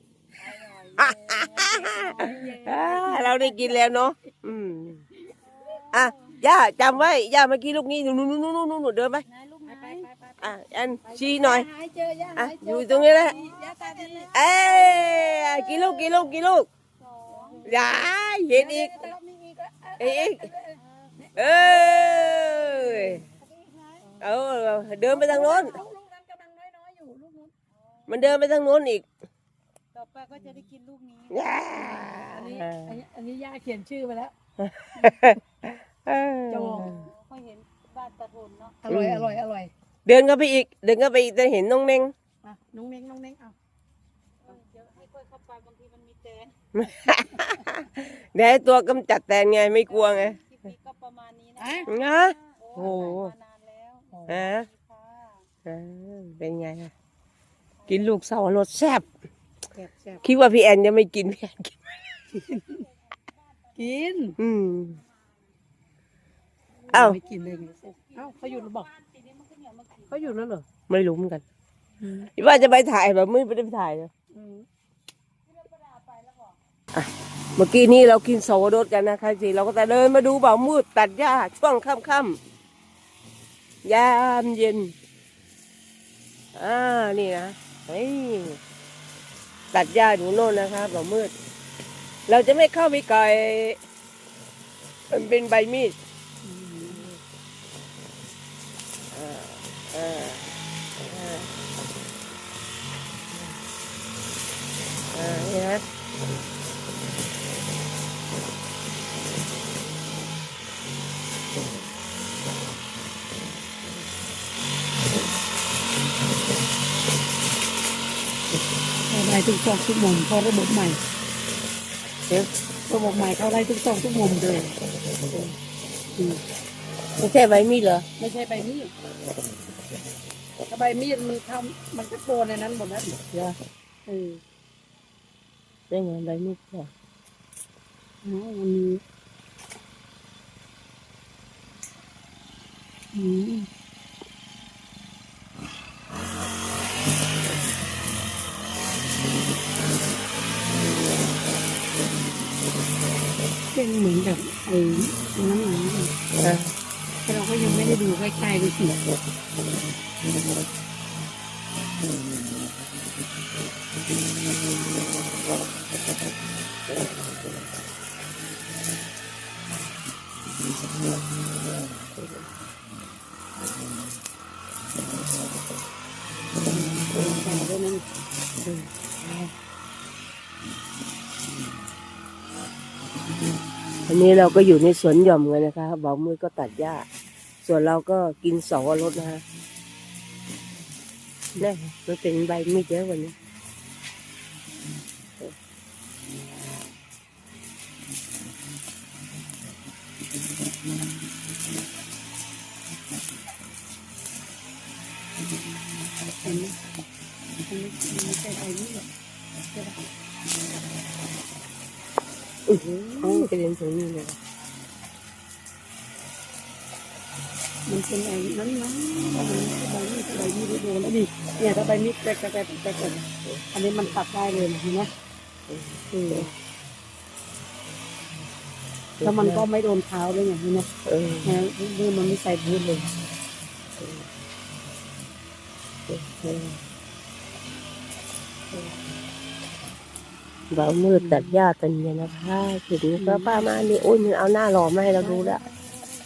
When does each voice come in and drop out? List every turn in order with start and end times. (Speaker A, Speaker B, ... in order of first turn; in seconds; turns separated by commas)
Speaker A: 0.4-2.3, Speaker B: 1.0-5.0, Speaker C: 1.9-3.9, Speaker A: 5.4-6.4, Speaker B: 5.9-9.2, Speaker A: 9.3-10.4, Speaker C: 9.7-10.1, Speaker B: 10.4-11.7, Speaker C: 11.1-15.5, Speaker B: 12.3-13.3, Speaker A: 12.9-16.2, Speaker B: 14.3-16.7, Speaker A: 17.0-17.7, Speaker C: 17.2-23.2, Speaker B: 17.6-19.1, Speaker B: 20.0-20.5, Speaker A: 20.8-21.4, Speaker B: 21.3-23.2, Speaker A: 23.3-24.2, Speaker B: 24.2-25.8, Speaker C: 25.1-27.5, Speaker A: 27.7-28.3, Speaker B: 28.1-29.0, Speaker A: 29.9-31.7, Speaker C: 30.4-30.6, Speaker B: 31.3-32.9, Speaker C: 31.7-34.3, Speaker B: 34.6-37.1, Speaker C: 35.0-35.4, Speaker C: 36.5-37.0, Speaker A: 37.0-38.8, Speaker C: 38.8-39.7, Speaker B: 38.9-39.3, Speaker B: 40.0-42.1, Speaker C: 42.4-43.5, Speaker A: 44.4-46.5, Speaker B: 46.7-50.4, Speaker A: 49.9-55.4, Speaker C: 51.6-51.9, Speaker B: 51.9-53.3, Speaker B: 54.3-54.7, Speaker B: 55.6-56.9, Speaker A: 57.8-58.1, Speaker B: 57.9-59.0, Speaker C: 59.7-60.2, Speaker B: 60.2-62.2, Speaker C: 62.3-62.8, Speaker A: 62.5-62.8, Speaker A: 63.6-64.3, Speaker C: 63.8-64.4, Speaker B: 64.4-65.0, Speaker C: 66.9-68.9, Speaker B: 66.9-67.2, Speaker A: 67.3-70.5, Speaker B: 70.1-71.4, Speaker C: 72.0-72.3, Speaker B: 72.2-74.1, Speaker C: 74.3-74.7, Speaker A: 75.6-76.5, Speaker B: 76.9-82.4, Speaker B: 83.8-84.9, Speaker B: 86.5-88.6, Speaker B: 89.7-91.3, Speaker B: 92.3-93.8, Speaker B: 95.1-96.0, Speaker C: 96.4-97.0, Speaker B: 96.9-97.2, Speaker B: 99.1-100.5, Speaker B: 101.0-101.5, Speaker B: 105.1-105.8, Speaker C: 119.1-121.0, Speaker C: 122.9-124.7, Speaker B: 127.2-128.0, Speaker C: 128.2-128.9, Speaker C: 130.7-134.4, Speaker B: 135.9-136.9, Speaker C: 138.2-139.0, Speaker C: 143.1-143.7, Speaker C: 153.7-156.1, Speaker B: 156.4-156.7, Speaker C: 157.2-159.0, Speaker C: 176.7-178.0, Speaker B: 178.6-179.5, Speaker B: 184.1-187.1, Speaker B: 187.6-189.4, Speaker B: 191.6-193.3, Speaker C: 206.4-206.8, Speaker C: 207.7-209.1, Speaker C: 209.7-210.0, Speaker B: 212.7-214.3, Speaker C: 212.8-213.5, Speaker C: 217.8-225.1, Speaker B: 225.7-226.5, Speaker C: 226.1-226.5, Speaker B: 229.2-229.6, Speaker C: 229.2-230.9, Speaker B: 231.1-231.6, Speaker C: 231.4-233.1, Speaker B: 236.1-236.8, Speaker B: 240.7-245.6, Speaker C: 241.2-241.6, Speaker C: 243.2-243.6, Speaker C: 245.2-245.6